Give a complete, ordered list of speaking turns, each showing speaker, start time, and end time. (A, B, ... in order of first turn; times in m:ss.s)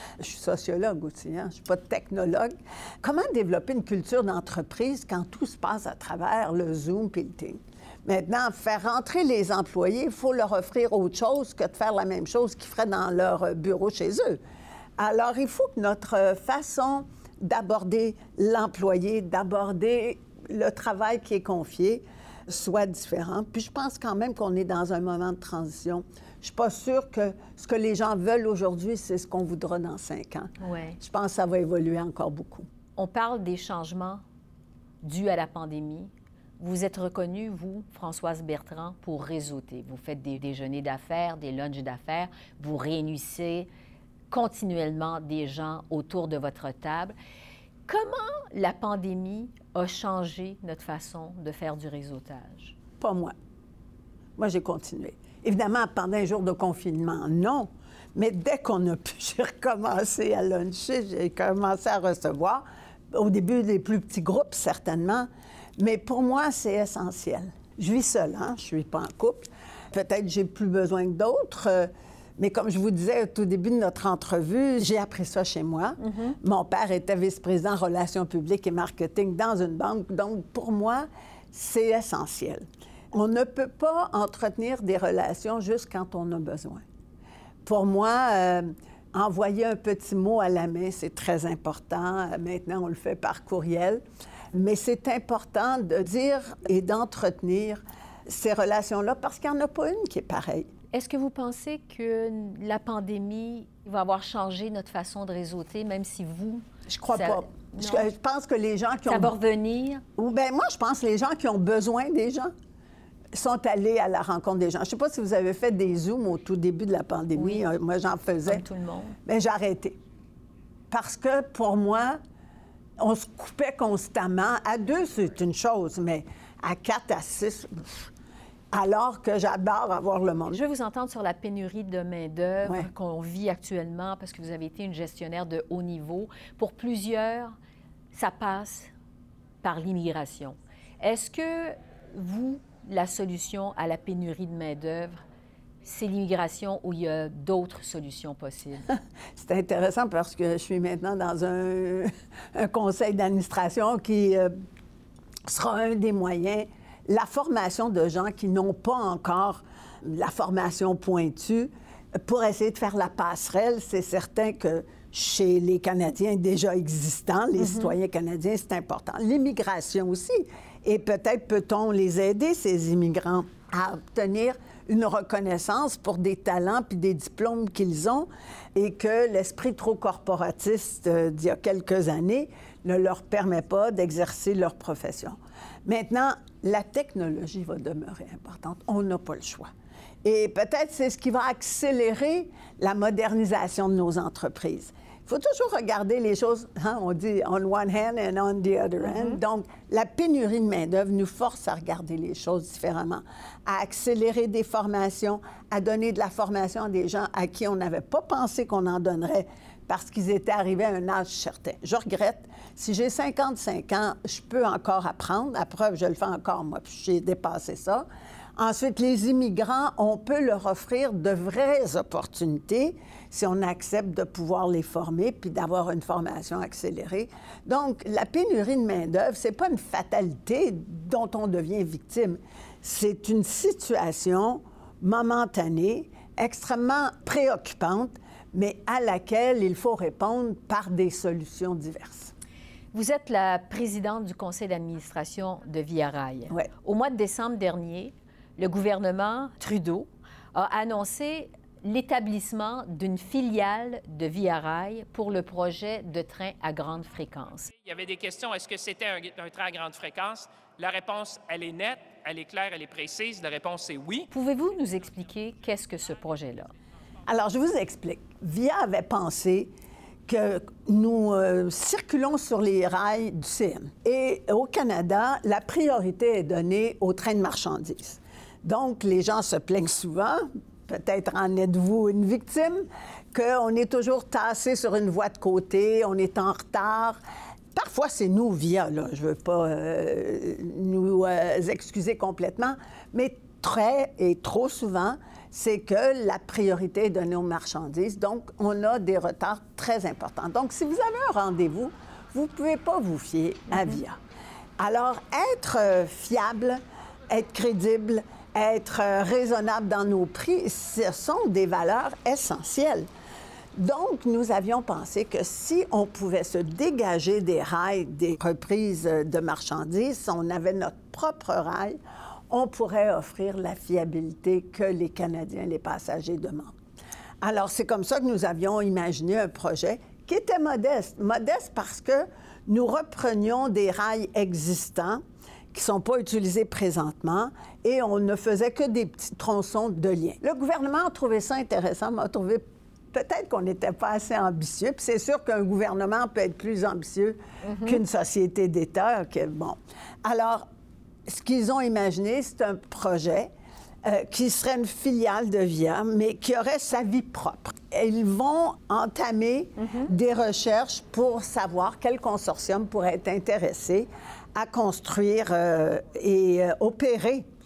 0:00.2-0:14.4 A
0:15.0-0:32.7 A
0:30.6-0:31.0 B
0:33.0-0:34.2 B
0:35.0-0:43.7 B
0:44.3-0:47.2 B
0:47.9-0:52.8 B
0:53.0-0:53.3 A
0:54.4-1:26.8 A
1:27.6-1:34.0 A
1:34.5-1:40.7 A
1:40.9-1:48.1 B
1:46.9-1:49.3 A
1:49.1-1:50.0 B
1:50.2-1:52.5 A
1:53.3-1:58.6 A
1:57.4-1:57.6 B
1:58.5-1:59.2 B
1:59.3-2:00.0 A
2:00.9-2:02.2 A
2:03.0-2:08.1 A
2:08.7-2:10.6 A
2:10.5-2:17.6 B
2:18.1-2:18.9 B
2:19.6-2:25.2 B
2:25.8-2:28.9 B
2:29.4-2:34.5 A
2:35.5-3:09.7 A
2:47.6-2:47.9 B
3:10.2-3:38.1 A
3:38.6-4:02.3 A
4:02.9-4:17.7 B
4:17.7-4:24.3 C
4:24.3-4:26.7 B
4:27.3-4:29.7 A
4:30.3-4:47.2 A
4:47.7-5:04.2 A
5:04.8-5:13.1 A
5:13.8-5:22.0 A
5:22.5-5:26.8 A
5:27.4-5:35.2 A
5:35.7-5:50.7 A
5:47.6-5:48.0 B
5:51.3-5:53.5 A
5:54.0-6:07.5 A